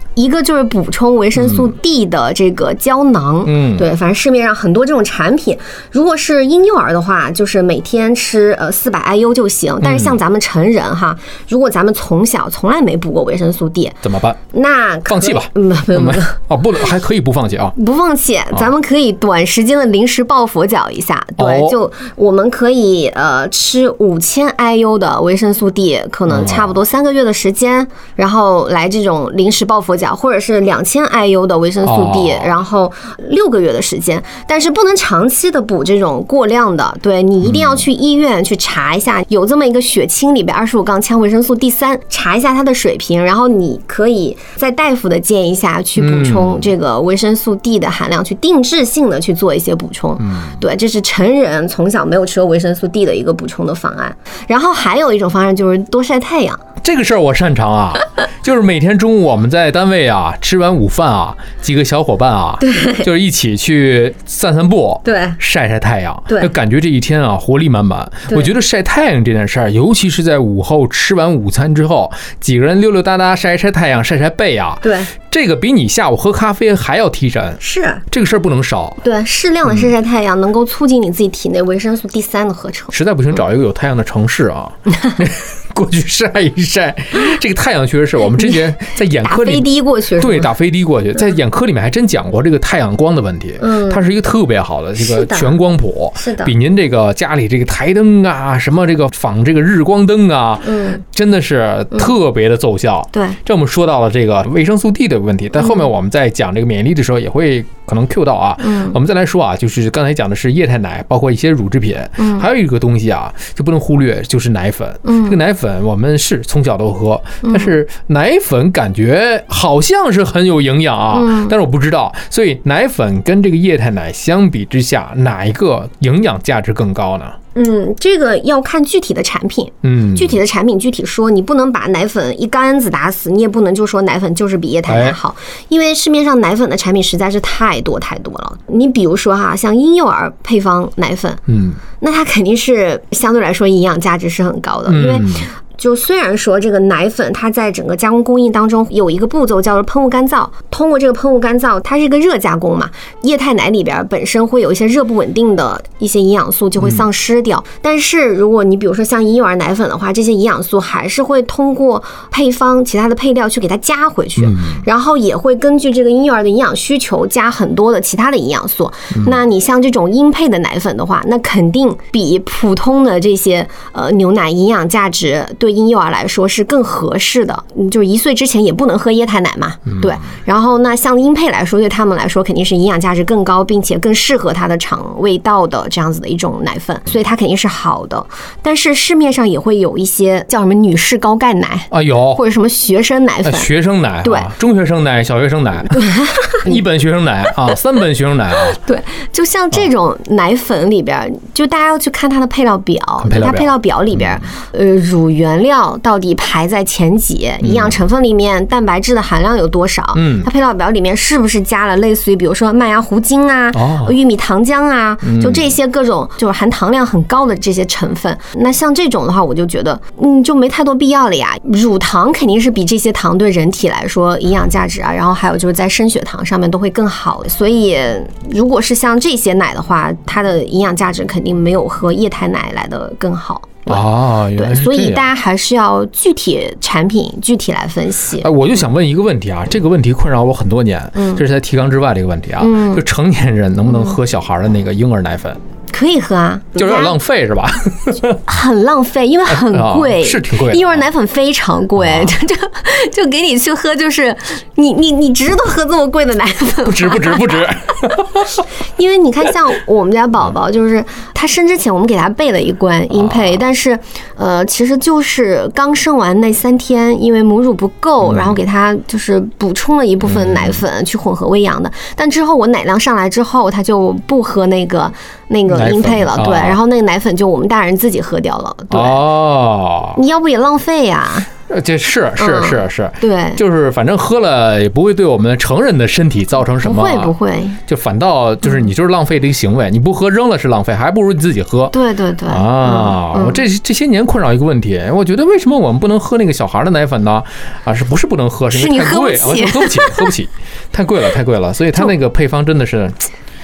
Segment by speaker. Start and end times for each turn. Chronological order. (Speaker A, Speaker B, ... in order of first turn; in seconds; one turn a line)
Speaker A: 0.1-16.4
Speaker B: 3.5-3.9
Speaker B: 9.8-10.2
Speaker B: 14.0-14.4
Speaker B: 15.1-17.7
Speaker A: 17.8-56.6
Speaker B: 21.4-21.8
Speaker B: 26.3-26.8
Speaker B: 31.8-32.5
Speaker B: 37.4-37.8
Speaker B: 46.0-46.7
Speaker B: 50.2-50.6
Speaker B: 56.8-79.0
Speaker A: 62.6-63.1
Speaker A: 65.0-65.4
Speaker A: 66.3-66.5
Speaker A: 74.8-75.1
Speaker A: 77.6-78.0
Speaker A: 79.0-82.9
Speaker B: 82.9-127.4
Speaker A: 89.2-90.5
Speaker A: 93.6-94.0
Speaker A: 95.0-95.6
Speaker A: 96.2-96.5
Speaker A: 100.6-101.0
Speaker A: 103.1-103.4
Speaker A: 105.6-105.9
Speaker A: 108.6-109.0
Speaker A: 112.2-112.5
Speaker A: 115.0-115.4
Speaker A: 117.4-117.7
Speaker A: 121.1-121.5
Speaker A: 127.5-141.4
Speaker B: 129.8-130.4
Speaker B: 134.9-135.2
Speaker B: 141.5-141.8
Speaker A: 142.0-193.7
Speaker B: 144.9-145.5
Speaker B: 164.4-164.8
Speaker B: 179.9-180.2
Speaker B: 191.9-192.4
Speaker B: 193.4-196.0
Speaker A: 194.2-194.5
Speaker A: 195.9-196.8
Speaker B: 196.6-198.8
Speaker A: 198.7-234.0
Speaker B: 203.2-203.7
Speaker B: 207.6-208.0
Speaker B: 210.1-210.5
Speaker B: 213.7-214.1
Speaker B: 215.2-215.7
Speaker B: 233.9-235.3
Speaker A: 234.6-238.5
Speaker B: 238.4-245.6
Speaker A: 241.2-241.4
Speaker A: 242.6-243.0
Speaker A: 243.9-244.2
Speaker A: 245.9-247.2
Speaker B: 246.8-248.4
Speaker A: 248.4-257.6
Speaker B: 249.5-251.0
Speaker B: 252.0-252.4
Speaker B: 256.8-258.6
Speaker A: 258.9-279.3
Speaker B: 263.1-263.6
Speaker B: 268.2-268.6
Speaker B: 270.2-270.8
Speaker B: 275.7-276.8
Speaker B: 278.9-280.2
Speaker A: 280.1-281.5
Speaker B: 281.7-287.3
Speaker A: 282.4-283.6
Speaker A: 286.8-287.8
Speaker B: 287.9-291.9
Speaker A: 291.9-293.6
Speaker B: 292.5-303.3
Speaker A: 298.7-300.3